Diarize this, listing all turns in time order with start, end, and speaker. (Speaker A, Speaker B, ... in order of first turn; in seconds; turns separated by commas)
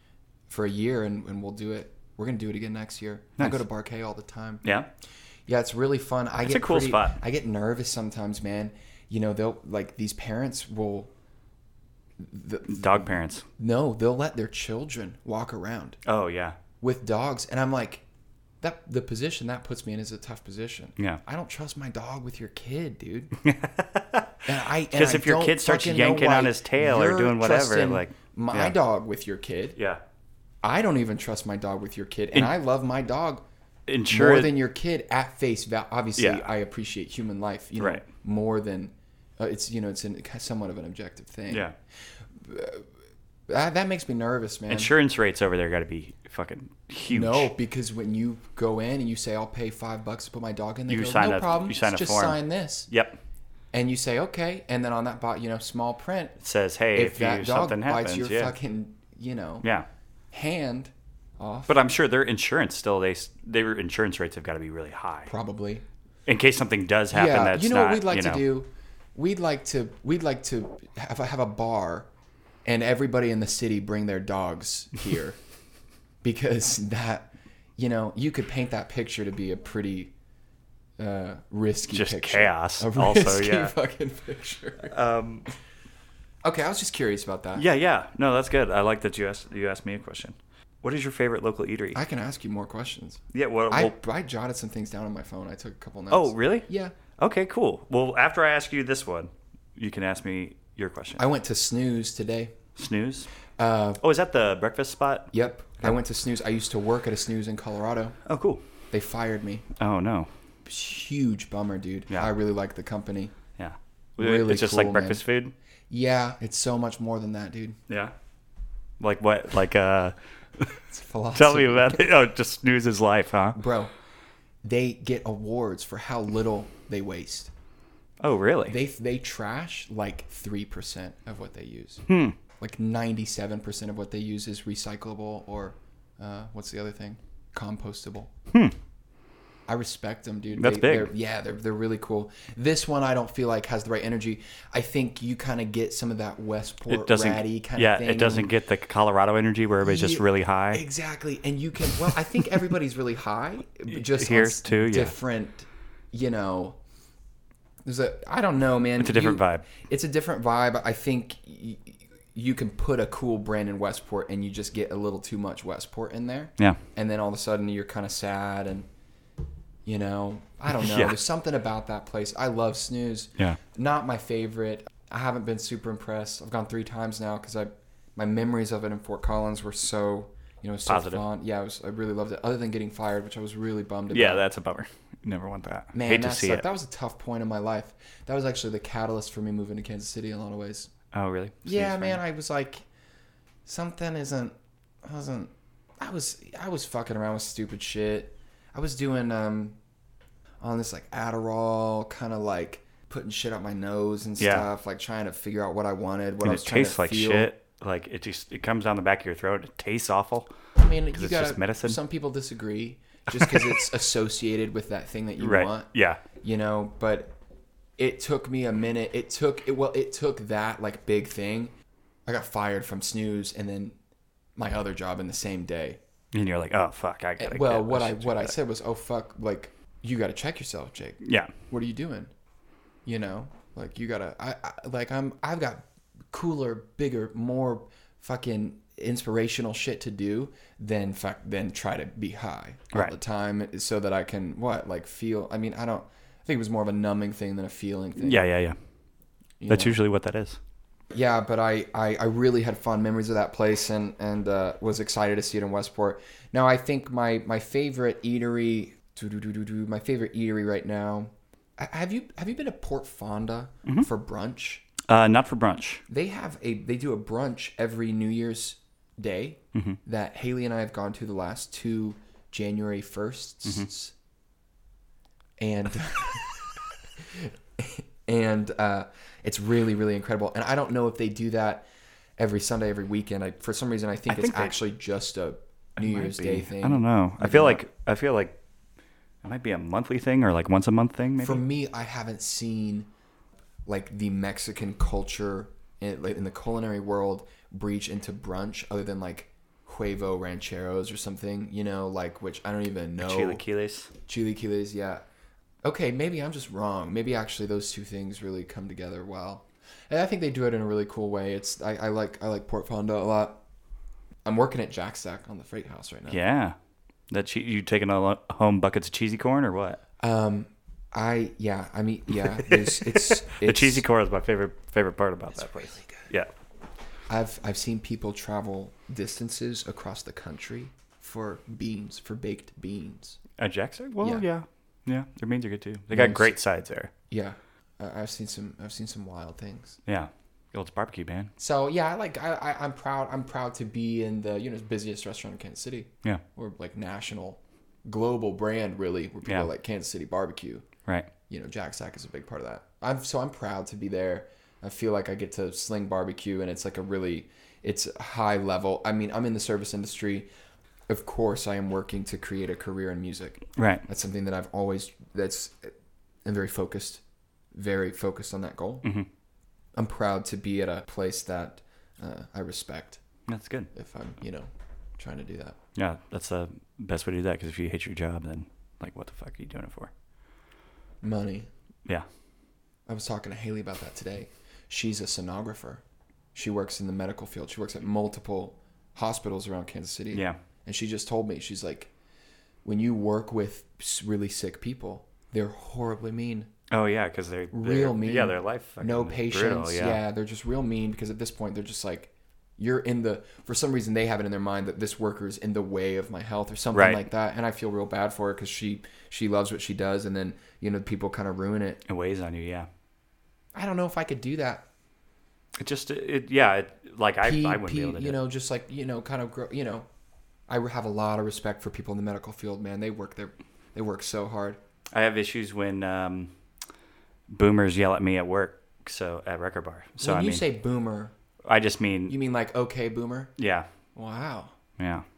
Speaker A: 0.5-4.6, Speaker B: 4.6-4.9, Speaker A: 5.5-11.1, Speaker B: 6.5-7.2, Speaker A: 12.2-16.0, Speaker B: 12.7-13.4, Speaker B: 16.1-16.6, Speaker A: 16.8-18.0, Speaker A: 18.6-23.3, Speaker B: 23.4-28.8, Speaker A: 24.4-29.8, Speaker A: 30.6-33.4, Speaker B: 33.9-34.5, Speaker A: 34.1-41.6, Speaker B: 36.2-36.5, Speaker B: 37.8-38.0, Speaker B: 41.5-41.8, Speaker A: 42.4-42.9, Speaker A: 43.5-44.9, Speaker B: 44.7-47.5, Speaker A: 47.1-52.9, Speaker B: 50.9-53.2, Speaker A: 53.7-56.4, Speaker B: 56.4-58.5, Speaker A: 56.9-59.6, Speaker A: 60.3-61.8, Speaker B: 61.7-65.3, Speaker A: 65.3-65.8, Speaker B: 66.3-68.4, Speaker A: 67.1-72.1, Speaker A: 72.7-75.4, Speaker A: 76.2-80.1, Speaker A: 81.0-85.0, Speaker B: 81.9-83.8, Speaker B: 84.9-85.5, Speaker A: 86.4-87.6, Speaker B: 87.5-92.0, Speaker A: 91.9-97.0, Speaker B: 93.3-94.0, Speaker B: 96.1-101.2, Speaker A: 101.2-102.5, Speaker B: 102.8-103.3, Speaker A: 103.6-104.0, Speaker B: 104.0-105.3, Speaker A: 105.3-108.2, Speaker B: 108.3-108.6, Speaker A: 108.9-109.7, Speaker B: 109.8-110.3, Speaker A: 110.7-113.4, Speaker B: 113.6-115.5, Speaker A: 114.2-115.2, Speaker A: 115.9-117.8, Speaker B: 117.9-118.1, Speaker B: 119.0-120.8, Speaker A: 120.9-122.1, Speaker B: 121.3-123.6, Speaker A: 123.5-123.9, Speaker A: 124.6-127.5, Speaker B: 128.2-128.8, Speaker A: 128.7-132.1, Speaker B: 132.1-132.4, Speaker A: 132.6-138.3, Speaker A: 139.7-148.5, Speaker B: 140.6-141.1, Speaker B: 146.9-150.8, Speaker A: 149.8-156.8, Speaker B: 153.9-155.2, Speaker A: 157.8-168.9, Speaker B: 159.0-159.7, Speaker A: 169.8-184.4, Speaker B: 170.7-171.2, Speaker B: 180.9-181.2, Speaker B: 184.1-186.7, Speaker A: 185.9-190.9, Speaker B: 191.1-192.2, Speaker A: 191.7-192.8, Speaker A: 193.7-199.8, Speaker A: 200.6-207.5, Speaker B: 204.4-204.7, Speaker B: 206.4-210.5, Speaker A: 210.8-217.3, Speaker B: 211.1-212.0, Speaker B: 213.3-213.8, Speaker B: 215.4-216.2, Speaker A: 218.0-221.7, Speaker A: 222.3-224.0, Speaker A: 224.6-226.0, Speaker B: 226.3-228.5, Speaker A: 227.4-232.3, Speaker B: 231.2-231.5, Speaker A: 233.1-248.4, Speaker B: 248.2-248.8, Speaker A: 249.6-250.0, Speaker B: 249.7-250.6, Speaker A: 251.1-264.9, Speaker B: 265.1-266.0, Speaker A: 266.1-274.1, Speaker A: 275.6-276.7, Speaker A: 277.2-287.8, Speaker B: 284.3-284.8, Speaker B: 286.0-288.6, Speaker B: 289.4-291.6, Speaker A: 291.4-293.1, Speaker A: 293.9-303.6, Speaker B: 303.2-304.1, Speaker A: 304.3-305.2, Speaker A: 305.8-313.6, Speaker A: 314.4-316.4, Speaker B: 316.3-316.8, Speaker B: 317.3-320.0, Speaker A: 320.2-324.0, Speaker B: 322.6-326.5, Speaker A: 325.6-326.3, Speaker A: 327.3-333.4, Speaker B: 333.6-337.1, Speaker A: 336.1-336.5, Speaker A: 337.3-340.0, Speaker B: 340.1-341.5, Speaker A: 341.6-350.9, Speaker B: 349.4-349.7, Speaker A: 351.5-360.5, Speaker A: 361.1-365.9, Speaker B: 363.8-364.0, Speaker A: 366.4-367.2, Speaker A: 367.7-369.1, Speaker A: 370.0-373.2, Speaker B: 373.5-373.9, Speaker A: 373.9-375.8, Speaker B: 376.0-380.1, Speaker A: 381.2-381.7, Speaker A: 383.1-386.0, Speaker A: 386.5-392.1, Speaker B: 390.3-390.6, Speaker A: 392.8-396.7, Speaker B: 396.9-400.2, Speaker A: 397.7-412.0, Speaker B: 406.9-407.2, Speaker B: 412.1-412.9, Speaker A: 413.8-414.9, Speaker B: 415.8-418.4, Speaker A: 417.4-420.1, Speaker A: 420.7-424.8, Speaker B: 425.1-426.5, Speaker B: 427.5-430.6, Speaker A: 430.2-431.3, Speaker B: 431.7-432.4, Speaker A: 432.3-433.5, Speaker B: 433.6-433.9, Speaker A: 434.1-434.8, Speaker B: 435.0-435.2